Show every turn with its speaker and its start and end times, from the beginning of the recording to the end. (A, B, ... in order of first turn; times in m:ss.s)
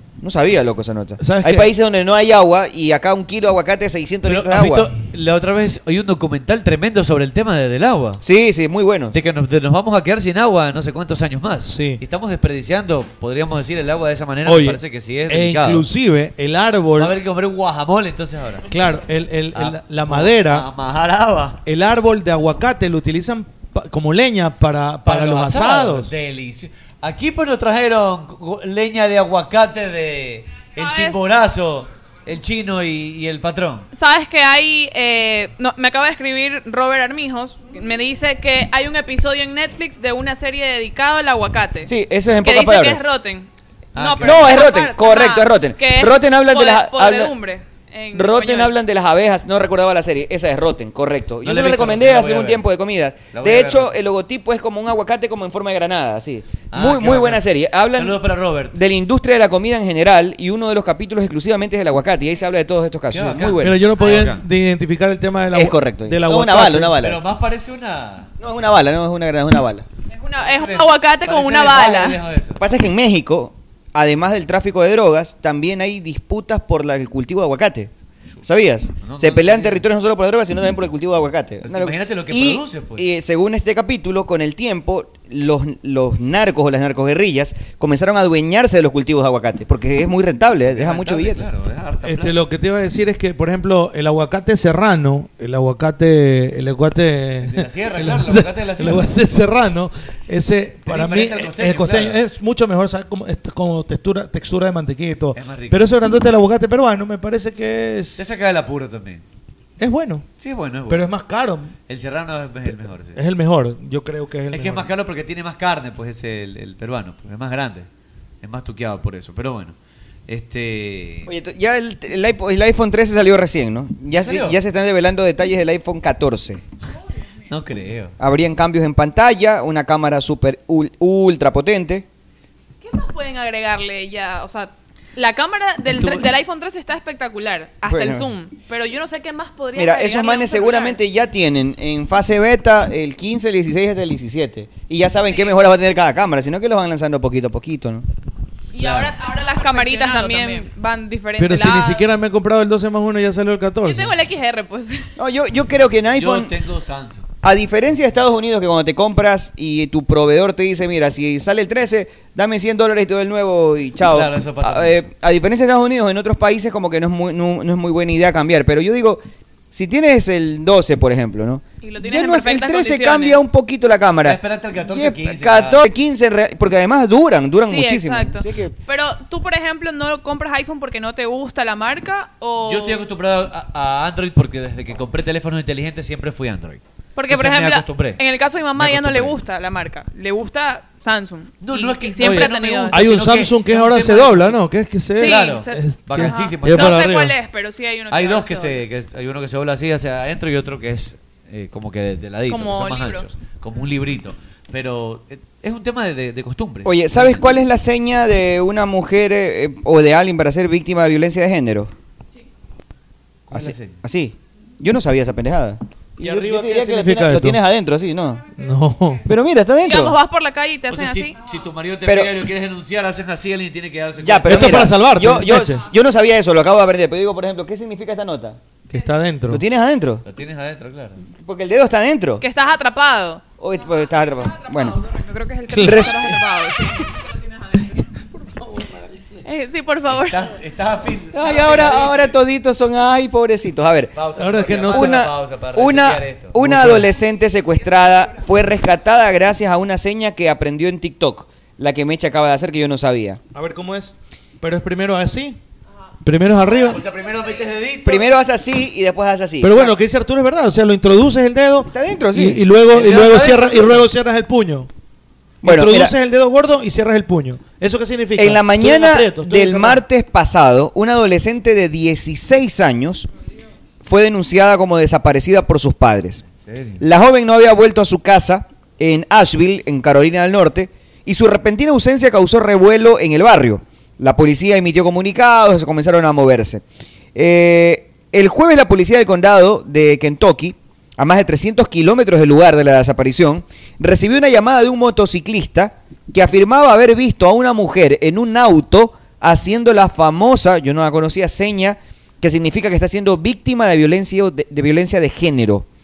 0:00.2-0:04.9 A
0:01.2-0:01.7 B
0:04.2-0:08.2 C
0:08.2-0:09.2 A
0:09.1-0:15.8 C
0:11.6-0:12.0 B
0:14.4-0:17.1 B
0:17.0-0:18.7 C
0:18.7-0:20.7 B
0:19.5-0:21.6 C
0:21.6-0:26.1 B
0:25.0-0:33.9 C
0:30.7-0:31.3 D
0:33.9-0:41.9 D
0:41.8-0:43.1 A
0:42.4-0:48.7 D
0:43.9-0:44.6 C
0:44.2-0:47.3 A
0:48.1-0:58.2 A
0:51.4-0:52.6 C
0:53.3-0:53.9 C
0:56.7-0:58.8 C
0:58.7-1:03.8 A
1:03.1-1:04.4 C
1:03.6-1:07.0 B
1:05.5-1:07.2 A
1:07.0-1:08.3 C
1:08.4-1:09.8 A
1:10.1-1:12.2 D
1:10.4-1:12.6 C
1:12.6-1:17.9 A
1:18.4-1:31.4 A
1:19.0-1:19.8 C
1:21.6-1:23.0 C
1:30.7-1:32.4 C
1:32.0-1:48.2 B
1:37.4-1:39.1 C
1:40.9-1:42.2 C
1:45.3-1:45.9 C
1:48.2-1:49.2 C
1:49.8-1:50.2 B
1:50.4-1:51.0 C
1:50.9-1:51.7 B
1:51.9-1:53.2 C
1:53.1-1:54.9 B
1:54.5-1:57.9 C
1:58.4-1:59.7 C
2:00.3-2:01.3 C
2:01.3-2:06.6 A
2:04.2-2:04.6 C
2:07.5-2:08.1 C
2:08.2-2:12.0 A
2:12.8-2:21.0 D
2:15.8-2:16.3 C
2:17.9-2:18.3 A
2:19.7-2:28.0 A
2:25.3-2:25.5 D
2:28.7-2:32.0 D
2:28.8-2:29.2 C
2:31.4-2:34.2 B
2:33.8-2:35.1 D
2:35.2-2:36.5 A
2:36.1-2:37.2 C
2:37.4-2:58.7 A
2:44.0-2:45.0 C
2:51.8-2:53.4 D
2:54.2-2:55.8 C
2:57.6-3:03.0 D
3:02.6-3:08.2 C
3:07.2-3:13.0 D
3:08.7-3:09.4 C
3:11.6-3:14.6 C
3:12.2-3:17.3 B
3:15.1-3:18.9 D
3:15.2-3:17.1 C
3:18.1-3:27.5 C
3:22.5-3:23.3 D
3:26.8-3:31.9 A
3:33.5-3:34.0 C
3:33.5-3:38.4 A
3:36.2-3:37.6 B
3:38.6-3:39.2 B
3:39.2-3:40.2 A
3:39.8-3:41.4 D
3:40.9-3:44.9 C
3:42.0-3:42.3 A
3:44.2-3:48.6 A
3:44.4-3:45.8 B
3:48.9-3:49.6 B
3:49.5-3:50.2 A
3:50.2-3:51.2 C
3:51.4-3:52.4 A
3:52.4-3:53.4 D
3:53.6-3:55.0 A
3:54.5-3:57.9 D
3:55.7-3:56.2 B
3:55.8-3:56.4 A
3:59.4-4:00.5 D
4:00.1-4:02.3 C
4:01.3-4:04.1 A
4:04.1-4:07.0 C
4:04.4-4:05.1 B
4:04.9-4:13.4 A
4:06.6-4:07.1 B
4:07.8-4:08.4 D
4:13.5-4:15.6 B
4:16.2-4:17.0 B
4:16.9-4:18.3 C
4:18.0-4:19.9 A
4:19.6-4:24.9 B
4:21.9-4:23.7 A
4:22.9-4:23.9 C
4:25.6-4:26.1 A
4:25.6-4:30.0 B
4:28.4-4:33.3 A
4:34.0-4:36.4 A
4:36.6-4:37.0 C
4:37.0-4:46.8 A
4:47.3-5:05.8 A